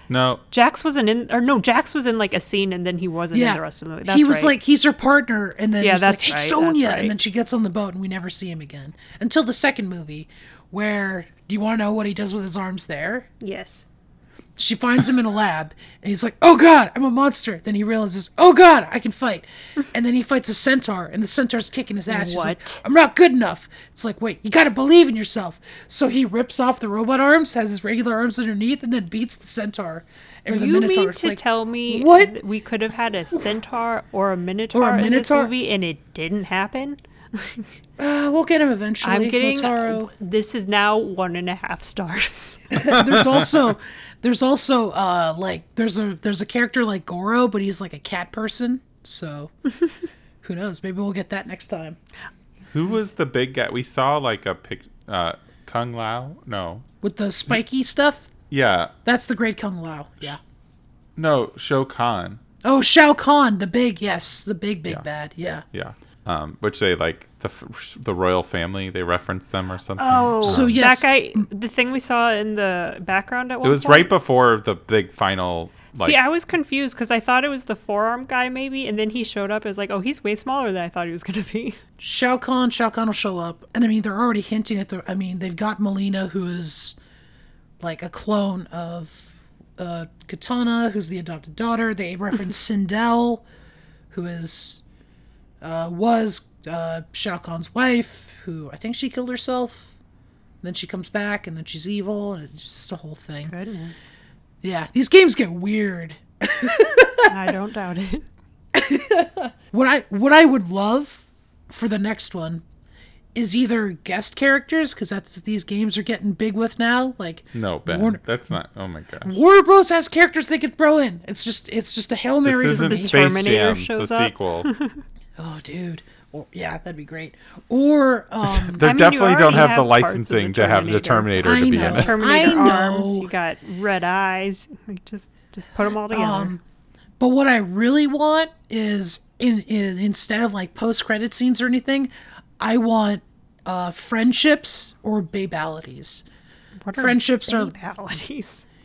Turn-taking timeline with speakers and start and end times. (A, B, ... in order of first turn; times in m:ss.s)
0:00.1-0:00.4 A
0:00.5-0:04.5 B
0:03.3-0:13.3 C
0:05.8-0:07.1 B
0:13.4-0:13.8 B
0:14.6-0:32.4 C
0:22.1-0:22.8 B
0:30.5-0:37.7 B
0:34.7-0:35.5 C
0:38.0-0:40.1 C
0:39.0-0:42.6 B
0:42.7-0:49.5 C
0:42.8-0:43.5 A
0:50.4-0:52.0 C
0:52.7-0:56.8 A
0:57.0-0:58.3 C
0:58.5-0:58.9 A
0:59.0-1:00.4 C
1:01.2-1:02.4 A
1:02.6-1:05.6 C
1:05.7-1:10.8 A
1:10.0-1:14.1 B
1:10.4-1:11.5 C
1:13.6-1:16.2 A
1:16.0-1:21.8 B
1:22.0-1:27.0 C
1:27.8-1:33.4 C
1:34.1-1:34.8 C
1:35.6-1:39.9 C
1:40.6-1:43.5 C
1:43.5-1:44.1 B
1:44.6-1:47.3 C
1:47.2-1:48.2 B
1:48.7-1:52.6 C
1:53.3-1:58.2 C
1:57.5-1:59.3 A
1:59.2-2:03.2 C
2:02.4-2:04.7 A
2:02.7-2:05.0 B
2:05.4-2:08.9 C
2:08.4-2:12.2 A
2:08.8-2:16.5 B
2:11.4-2:13.3 C
2:16.1-2:16.6 C
2:17.2-2:26.2 C
2:26.8-2:28.6 B
2:27.0-2:27.7 C